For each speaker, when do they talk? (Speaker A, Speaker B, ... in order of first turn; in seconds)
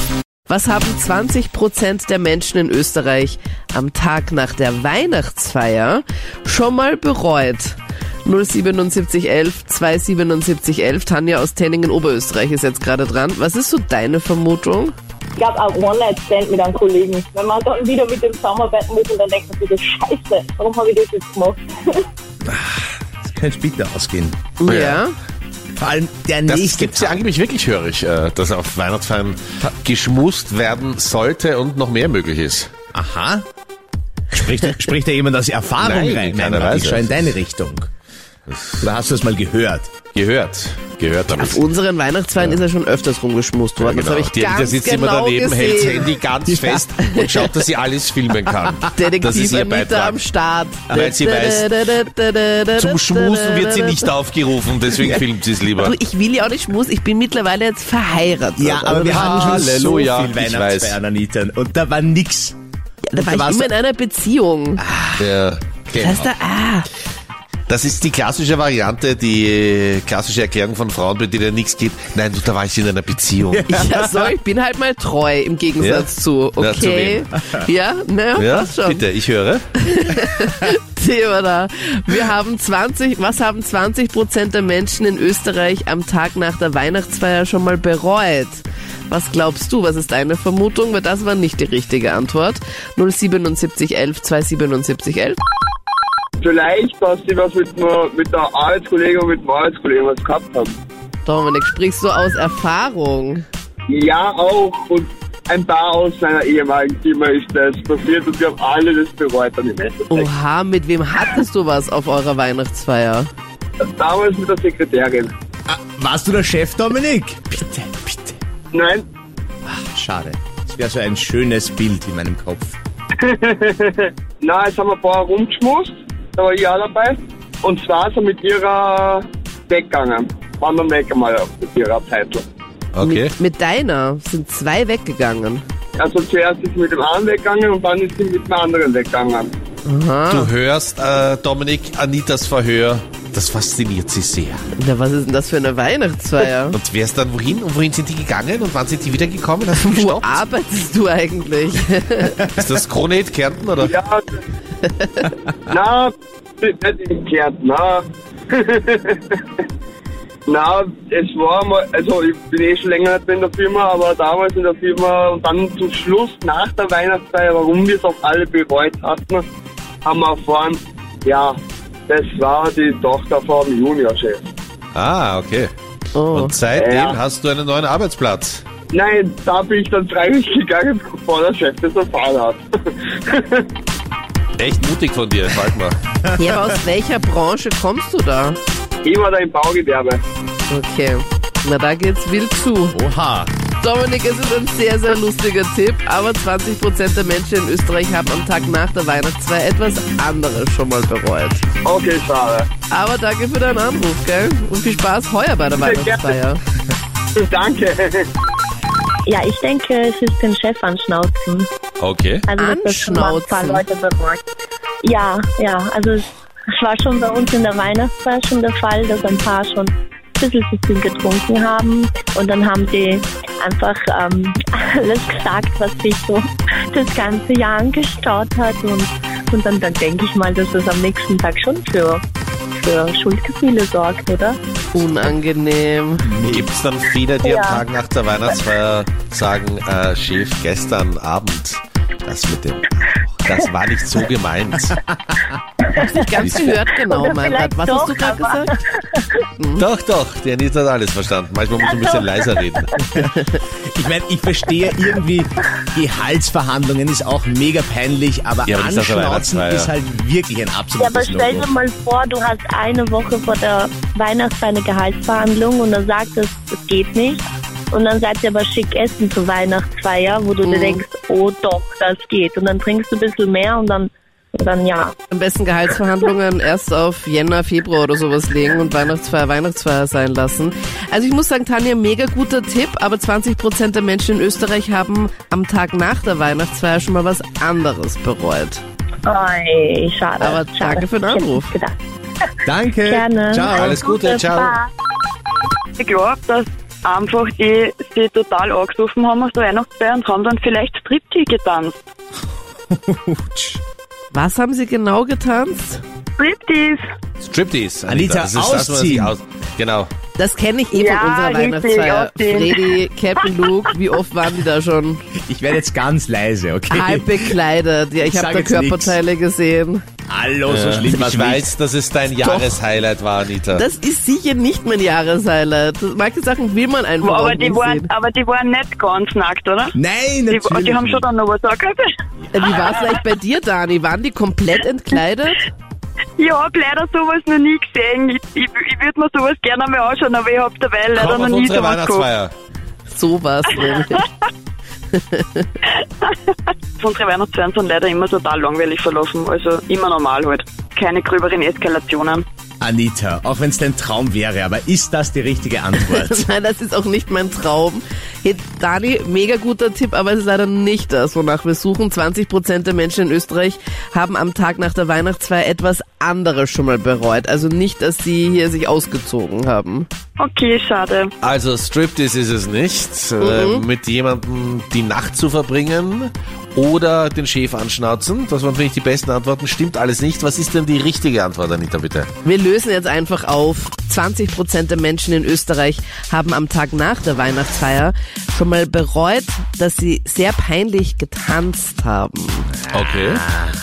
Speaker A: 0.5-14.9, 24.6-25.1, 41.4-47.5, 48.9-54.1, 55.8-59.7, 63.1-64.8, 66.0-66.9, 73.7-79.0, 79.8-95.4, 101.2-103.4, 110.1-113.3, 133.0-135.6, 139.8-140.5, 144.8-146.8, 149.8-152.5, 155.0-155.3, 176.1-176.6, 186.3-188.6, 190.7-193.0, 193.8-201.6, 202.9-206.6, 212.6-213.8, 234.9-236.3, 245.9-248.7, 249.6-249.8, 270.6-271.0, 275.3-288.8, 290.4-291.7, 304.3-306.0, 310.4-315.2, 316.9-320.0, 322.3-322.8, 323.7-328.1, 332.5-335.6, 343.1-344.2, 345.1-345.6, 356.0-370.1, 373.4-373.8, 382.4-392.7
Speaker B: 15.3-22.0
Speaker C: 22.5-24.4, 25.8-27.2, 32.9-33.4, 34.3-37.9, 38.8-39.9, 58.6-62.5, 63.1-63.7, 64.8-65.2, 65.9-66.3, 73.5-74.3, 115.7-118.4, 119.7-122.8, 186.3-186.5, 192.9-193.5, 236.2-236.7, 253.8-261.7, 292.6-294.0, 302.9-303.8, 308.1-309.3, 315.4-317.6, 318.2-319.2, 320.3-321.7, 329.9-331.2, 352.8-356.5, 392.9-393.7
Speaker D: 24.6-25.0, 26.5-32.7, 35.8-37.2, 38.5-38.8, 40.1-41.6, 43.8-50.2, 50.9-51.8, 52.7-55.9, 59.2-61.0, 65.2-66.0, 67.7-73.7, 75.8-77.3, 78.4-79.7, 132.9-133.3, 140.3-144.7, 146.7-150.4, 152.5-153.9, 174.9-175.7, 176.3-178.6, 184.6-186.0, 212.0-212.5, 236.4-245.0, 246.4-246.7, 249.8-252.9, 258.7-259.9, 293.7-294.8, 307.4-310.1, 320.7-323.8, 341.1-342.5, 371.4-382.3, 392.9-393.4
Speaker E: 96.4-100.8, 103.9-110.3, 113.8-115.3, 118.7-119.0, 123.2-132.4, 136.0-139.5, 153.8-154.4, 155.7-159.4, 160.5-169.4, 170.0-171.6, 172.1-174.5, 176.7-177.2, 178.9-183.7, 189.0-190.2, 201.8-202.7, 205.7-206.4, 207.4-208.2
Speaker F: 209.3-211.7, 212.5-214.4, 215.0-232.2, 232.8-234.6, 237.4-237.8, 245.8-249.3, 251.8-252.6, 261.0-275.1, 289.2-291.9, 293.0-294.9
Speaker G: 296.0-302.0, 306.4-307.0, 310.9-312.8, 327.2-329.9, 330.5-332.0, 336.4-342.3, 347.0-352.4, 370.4-371.3